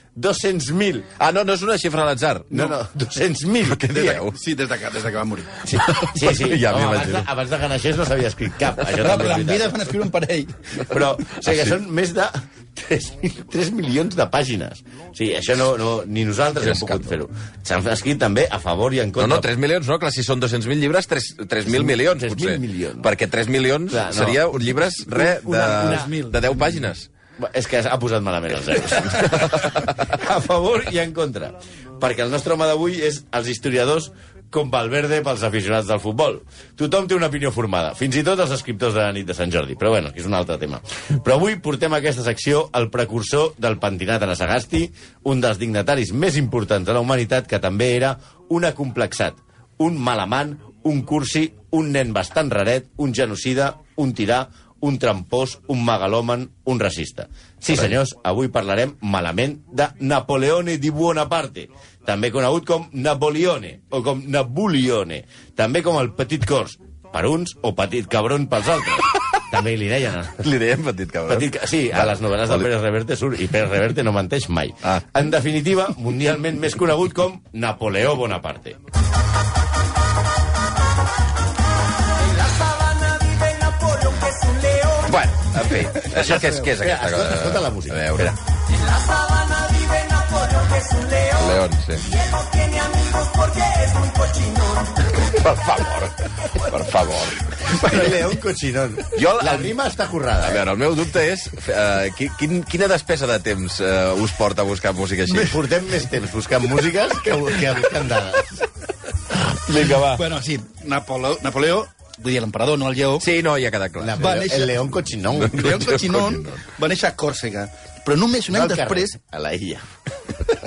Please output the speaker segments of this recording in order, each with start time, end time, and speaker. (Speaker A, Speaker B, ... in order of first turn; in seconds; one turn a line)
Speaker A: 0.1-1.1
Speaker B: 1.2-2.6
Speaker A: 2.5-4.2
Speaker B: 3.6-4.3
Speaker C: 4.2-5.7
Speaker A: 5.6-9.8
Speaker B: 5.9-7.3
Speaker C: 8.9-10.9
Speaker A: 10.9-19.5
Speaker B: 11.4-11.7
Speaker B: 16.6-17.0
Speaker B: 19.2-27.1
Speaker A: 21.6-23.1
Speaker A: 23.9-24.4
Speaker C: 25.1-26.5
Speaker A: 25.5-26.1
Speaker A: 27.4-70.5
Speaker B: 29.1-29.7
Speaker B: 70.4-72.7
Speaker A: 71.3-78.8
Speaker C: 82.6-85.0
Speaker B: 85.0-88.3
Speaker A: 86.1-88.4
Speaker C: 88.9-91.2
Speaker B: 91.2-92.2
Speaker C: 92.3-95.0
Speaker B: 95.2-98.2
Speaker A: 97.7-100.6
Speaker B: 99.1-99.7
Speaker B: 100.4-105.6
Speaker A: 105.3-108.6
Speaker B: 109.5-110.2
Speaker C: 110.0-113.3
Speaker B: 113.2-114.2
Speaker A: 114.0-116.0
Speaker C: 114.2-114.7
Speaker B: 115.4-116.6
Speaker C: 115.5-119.1
Speaker A: 118.5-119.9